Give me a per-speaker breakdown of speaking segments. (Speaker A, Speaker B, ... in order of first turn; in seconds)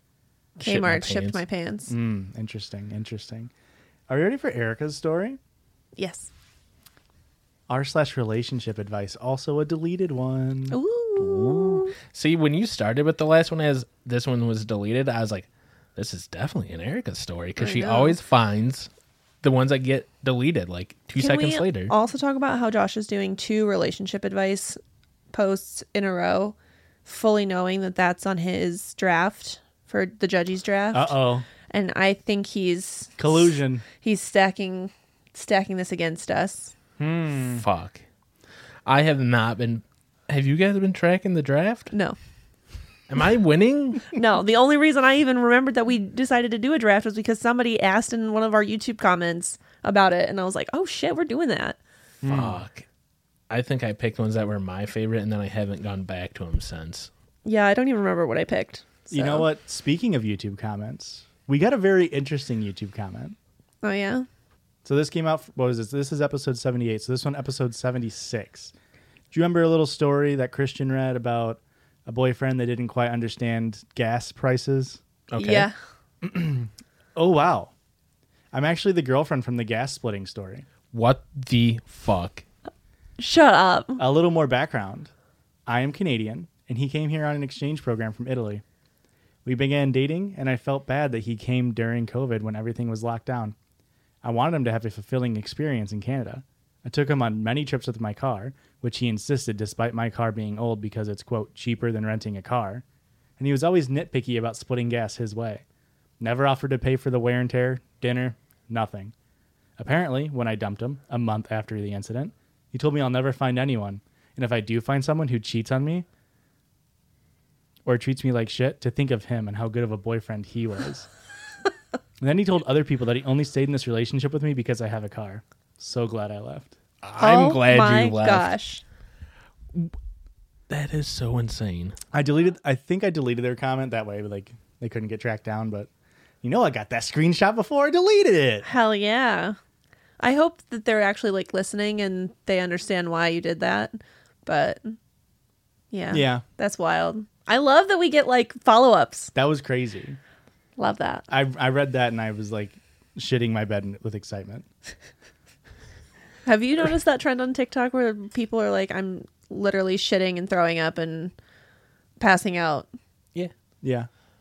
Speaker A: 0.6-1.4, 11.2-18.9, 19.4-21.9, 37.5-38.0, 38.9-41.9, 43.1-44.1, 52.3-52.8, 53.5-57.1, 75.3-75.7, 80.9-82.4, 127.0-128.6, 130.7-131.9
Speaker B: 0.6-1.9, 6.0-6.3, 10.7-11.9, 17.6-18.1, 21.2-24.8, 25.3-31.1, 31.7-36.7, 41.9-42.2, 44.1-51.8, 57.4-59.5, 63.8-64.2, 75.4-75.7, 83.2-84.0, 127.2-128.8, 138.6-139.6, 140.2-144.9, 145.9-149.3, 150.8-151.2, 156.4-161.3, 162.2-162.9
Speaker C: 1.9-3.5, 4.1-5.4, 7.7-10.8, 30.9-31.4, 33.2-33.8, 37.0-37.6, 52.2-52.6, 59.1-63.4, 64.8-68.7, 69.3-75.0, 76.2-77.7, 78.5-80.7, 84.0-85.1, 85.7-88.6, 89.4-93.5, 94.2-102.8, 103.4-105.6, 106.2-109.1, 109.8-116.0, 117.8-121.1, 122.2-126.8, 132.1-135.9, 136.4-138.7, 146.1-146.4, 149.3-150.2, 151.3-154.7, 163.8-164.1